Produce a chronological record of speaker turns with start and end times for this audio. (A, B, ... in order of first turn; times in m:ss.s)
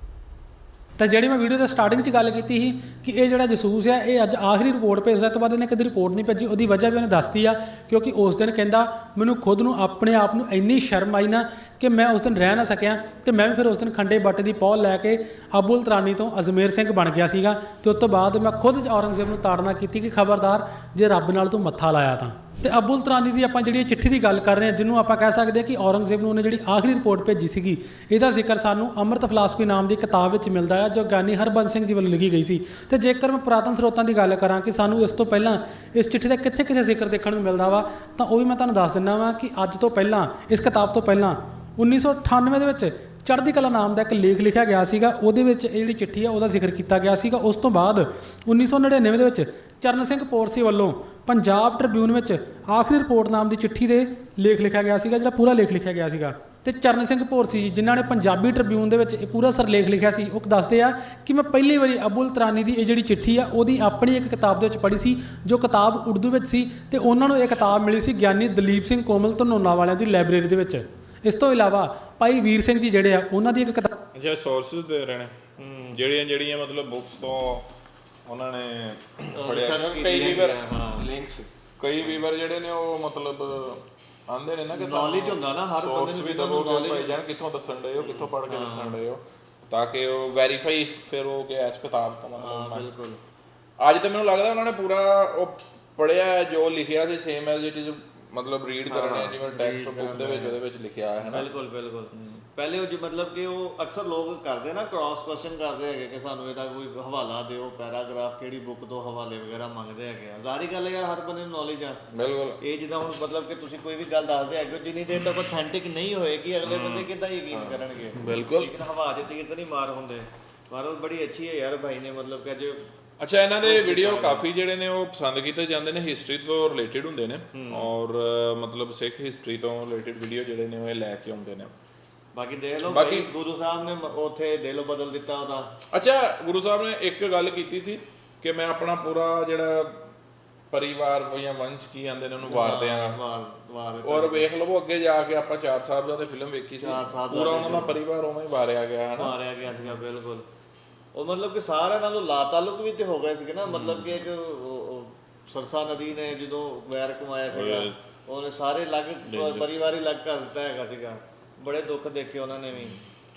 0:01.0-1:14.0 A
1:14.1-1:15.3 B
1:15.6-1:16.0 C
1:15.9-1:17.7 B
1:18.3-1:32.9 B
1:19.3-1:21.1 C
1:24.7-1:27.2 C
1:28.0-1:29.0 C
1:32.4-1:33.2 C
1:33.8-1:41.5 B
1:38.9-1:40.6 C
1:41.2-1:52.0 C
1:42.1-1:42.4 B
1:52.1-1:52.6 B
1:52.6-2:02.8 C
1:56.6-1:58.7 B
2:03.2-2:11.7 B
2:03.6-2:04.5 C
2:07.5-2:07.9 C
2:12.3-2:15.7 C
2:12.8-2:13.3 B
2:15.9-2:20.1 B
2:20.7-2:23.2 B
2:22.4-2:24.5 C
2:24.0-2:29.4 B
2:26.8-2:28.0 C
2:29.2-2:30.5 C
2:31.1-2:43.0 C
2:33.7-2:34.2 B
2:37.5-2:38.0 B
2:39.3-2:39.8 B